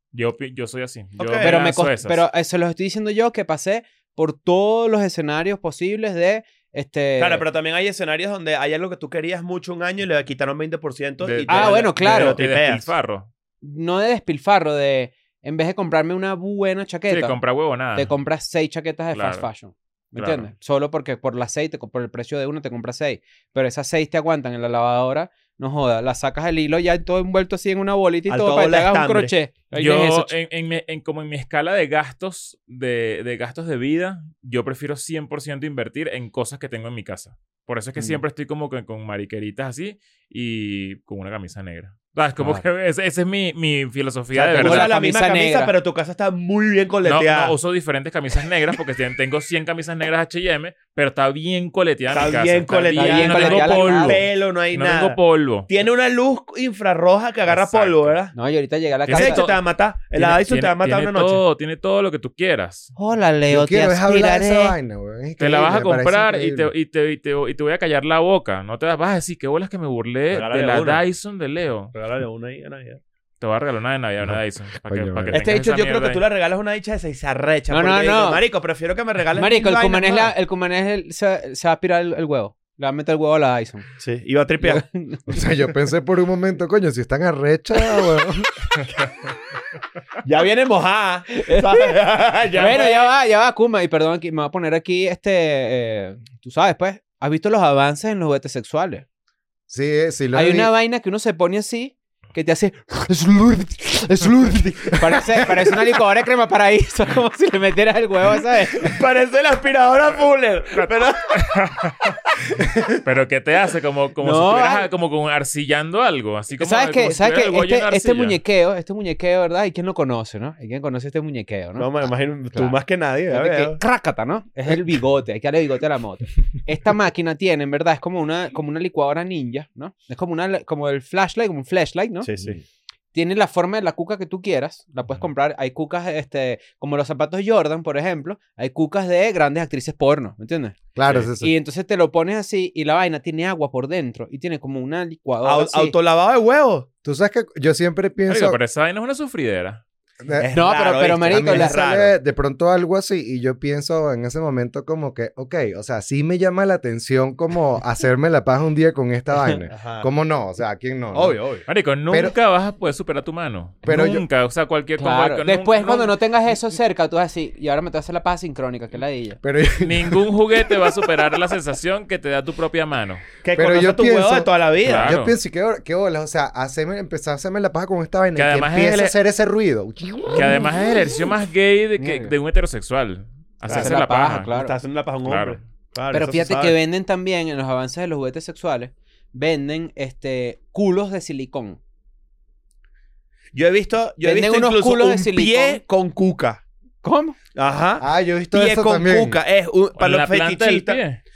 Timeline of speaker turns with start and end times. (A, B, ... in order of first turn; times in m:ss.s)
0:00.1-0:02.2 A
0:01.2-0:01.6 B
0:01.4-0:07.4 C
0:07.2-0:12.9 B
0:11.2-0:13.3 A
0:11.5-0:12.4 C
0:13.6-0:17.4 C
0:17.1-0:18.1 A
0:17.9-0:30.3 C
0:19.1-0:19.5 A
0:20.1-0:20.5 A
0:28.3-0:29.3 B
0:29.7-0:44.9 A
0:42.4-0:42.6 C
0:44.3-0:47.6 B
0:44.4-0:45.7 C
0:47.0-0:55.7 A
0:52.1-0:58.3 B
0:52.9-0:54.2 C
0:57.4-0:58.2 A
0:58.3-0:59.5 C
0:59.0-1:02.9 A
0:59.1-1:01.4 B
1:03.0-1:04.8 C
1:03.5-1:06.7 D
1:05.4-1:11.9 A
1:10.3-1:11.0 B
1:11.9-1:13.0 B
1:13.4-1:16.2 A
1:14.2-1:15.5 D
1:15.3-1:20.3 B
1:17.7-1:18.4 C
1:19.3-1:23.9 C
1:24.0-1:24.8 B
1:24.6-1:25.4 C
1:25.3-1:28.5 D
1:27.8-1:28.2 C
1:30.2-1:33.1 B
1:31.4-1:32.0 C
1:32.5-1:39.0 C
1:39.7-1:40.7 D
1:40.3-1:48.9 C
1:48.8-1:51.6 B
1:50.7-1:52.2 A
1:53.0-1:58.4 A
1:54.2-1:54.9 C
1:56.6-2:02.8 C
2:01.8-2:03.8 B
2:03.3-2:12.3 C
2:12.2-2:12.6 B
2:13.1-2:20.8 C
2:20.9-2:21.5 D
2:21.4-2:25.9 C
2:25.4-2:26.9 B
2:27.0-2:28.6 D
2:28.3-2:29.8 A
2:30.2-2:30.7 D
2:30.4-2:32.1 B
2:30.5-2:31.8 C
2:31.2-2:41.4 D
2:39.7-2:40.1 B
2:41.1-2:41.6 B
2:41.7-2:46.1 A
2:43.8-2:44.2 D
2:45.0-2:49.4 C
2:49.4-2:50.9 D
2:49.8-2:53.2 A
2:53.4-2:55.1 B
2:53.5-3:00.7 D
2:54.8-2:55.4 A
2:58.4-2:59.2 A
3:00.3-3:04.5 A
3:02.0-3:02.3 C
3:03.7-3:04.0 B
3:03.7-3:04.8 C
3:04.5-3:06.7 B
3:05.2-3:05.6 A
3:06.1-3:11.8 C
3:13.5-3:16.6 B
3:14.2-3:15.8 C
3:17.0-3:17.4 C
3:17.5-3:21.0 B
3:18.0-3:19.4 D
3:20.0-3:21.2 A